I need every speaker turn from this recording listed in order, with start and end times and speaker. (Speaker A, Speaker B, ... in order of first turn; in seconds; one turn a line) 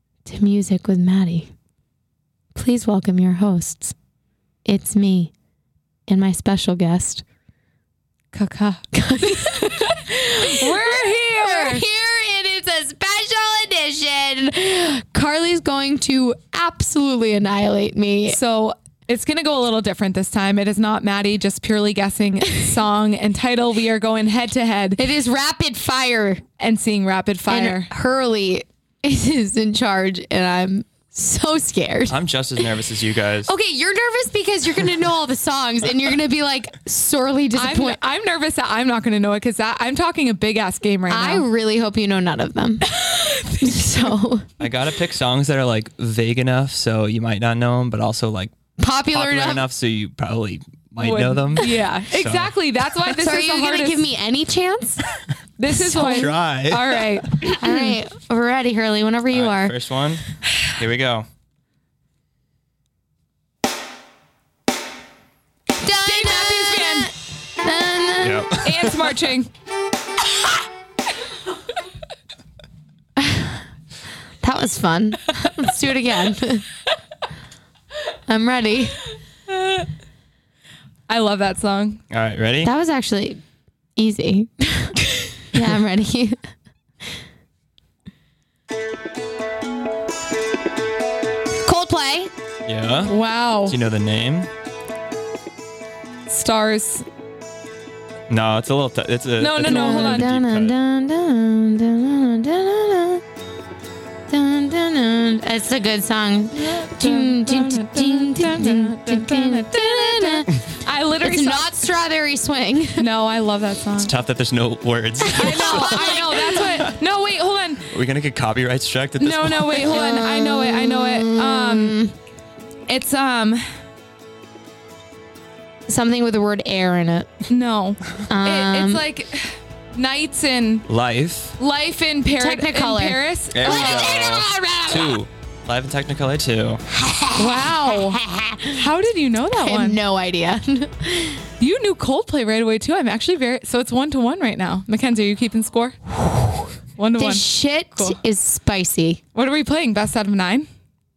Speaker A: 0.2-1.5
Speaker A: 2.5-4.0
Speaker A: 4.7-5.3
Speaker A: 6.1-7.2
Speaker B: 8.3-11.8
Speaker A: 8.9-18.4
Speaker B: 18.3-25.0
Speaker A: 25.0-26.4
Speaker B: 26.6-27.9
Speaker A: 27.5-32.2
Speaker C: 32.1-33.5
Speaker A: 33.5-38.0
Speaker B: 37.5-41.5
Speaker A: 41.1-42.9
Speaker B: 42.9-44.2
Speaker A: 43.6-44.5
Speaker C: 44.6-48.5
Speaker A: 48.8-49.6
Speaker C: 49.1-52.5
Speaker B: 51.0-54.0
Speaker A: 53.1-55.0
Speaker B: 55.6-58.0
Speaker A: 55.7-56.3
Speaker C: 56.0-57.2
Speaker A: 57.6-59.7
Speaker C: 59.3-61.3
Speaker A: 65.8-68.5
Speaker B: 66.0-67.1
Speaker C: 68.2-69.2
Speaker B: 68.6-69.5
Speaker A: 74.4-76.7
Speaker A: 78.3-79.0
Speaker B: 79.5-79.9
Speaker B: 81.1-82.0
Speaker C: 82.1-82.7
Speaker A: 82.6-83.4
Speaker A: 84.0-85.0
Speaker A: 85.5-86.4
Speaker A: 91.6-92.3
Speaker C: 92.7-93.1
Speaker B: 93.1-93.8
Speaker C: 93.7-94.5
Speaker B: 96.3-97.0
Speaker C: 98.3-100.8
Speaker B: 99.4-100.3
Speaker A: 99.7-103.2
Speaker A: 104.3-110.6
Speaker B: 106.6-111.8
Speaker A: 111.2-113.1
Speaker B: 113.0-114.1
Speaker C: 114.0-116.9
Speaker A: 115.3-116.5
Speaker B: 115.3-117.9
Speaker C: 117.9-120.0
Speaker B: 119.2-122.0
Speaker A: 119.8-122.1
Speaker B: 122.9-123.8
Speaker A: 125.9-127.4
Speaker B: 127.5-130.9
Speaker A: 128.3-129.0
Speaker C: 130.9-131.6
Speaker B: 131.6-134.2
Speaker A: 132.3-135.2
Speaker C: 133.5-136.8
Speaker A: 137.0-138.8
Speaker B: 137.4-140.0
Speaker A: 139.6-141.5
Speaker B: 141.6-148.2
Speaker A: 147.2-149.2
Speaker B: 149.3-150.7